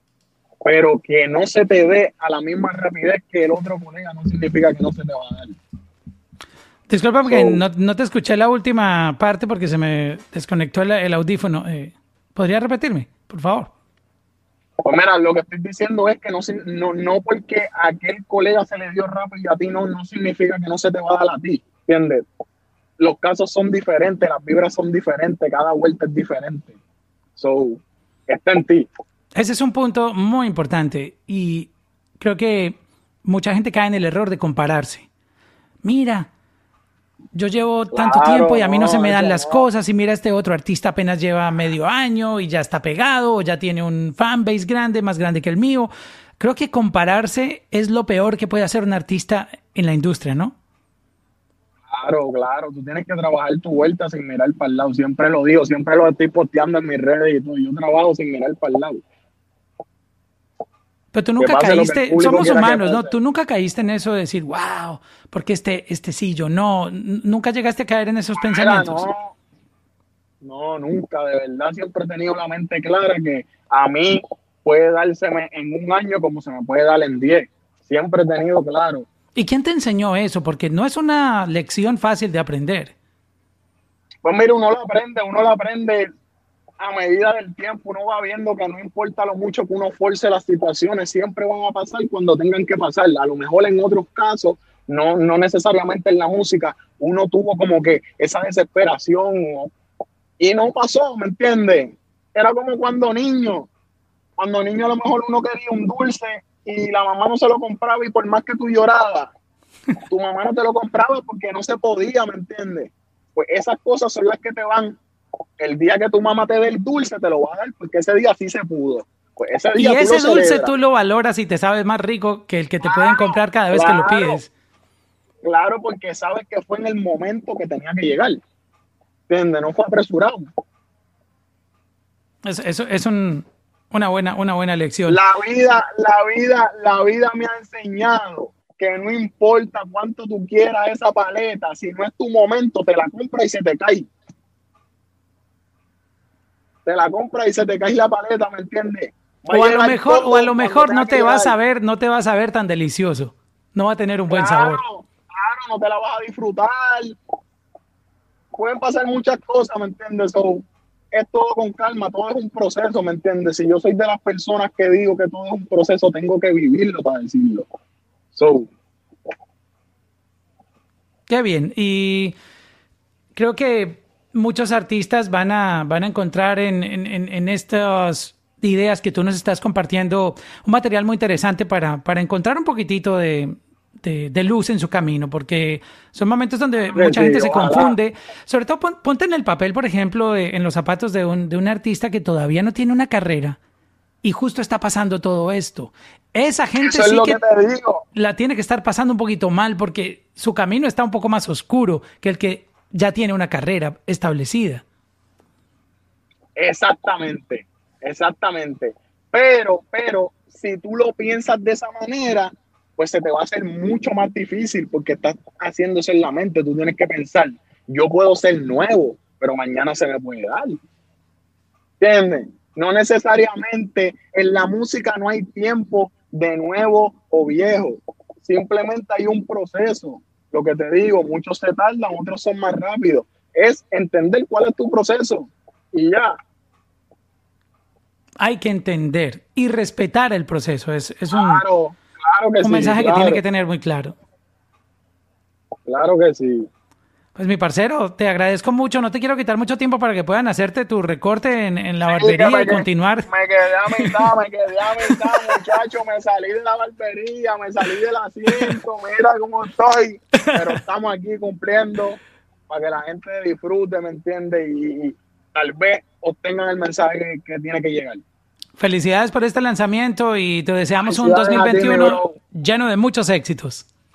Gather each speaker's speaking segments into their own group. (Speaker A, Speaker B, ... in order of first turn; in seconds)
Speaker A: 0.6-5.6, 7.2-7.6, 14.8-22.2, 23.0-26.8, 27.4-28.9, 37.9-39.7, 51.9-59.0, 61.4-63.1, 68.4-69.4, 70.4-79.1, 84.2-86.1, 86.8-99.7, 100.4-103.7, 104.4-109.3, 110.1-115.0, 115.6-120.7, 122.8-124.4, 125.4-128.4, 129.3-130.5, 135.1-144.1, 146.8-151.5, 154.3-157.2, 158.6-167.7, 168.3-168.7, 186.9-187.9, 196.8-198.0, 206.6-220.8, 222.0-236.3, 241.3-243.4, 245.9-246.7, 252.1-268.2, 271.0-272.4
Speaker B: 6.9-13.7, 29.4-35.1, 35.8-36.3, 37.3-50.6, 61.1-69.1, 79.3-82.9, 119.8-124.5, 132.4-135.2, 149.5-154.8, 171.3-172.3, 173.3-193.6, 194.2-197.4, 198.2-204.8, 238.4-241.6, 242.6-244.2, 247.3-253.3, 253.9-254.2, 255.1-255.6, 268.8-273.9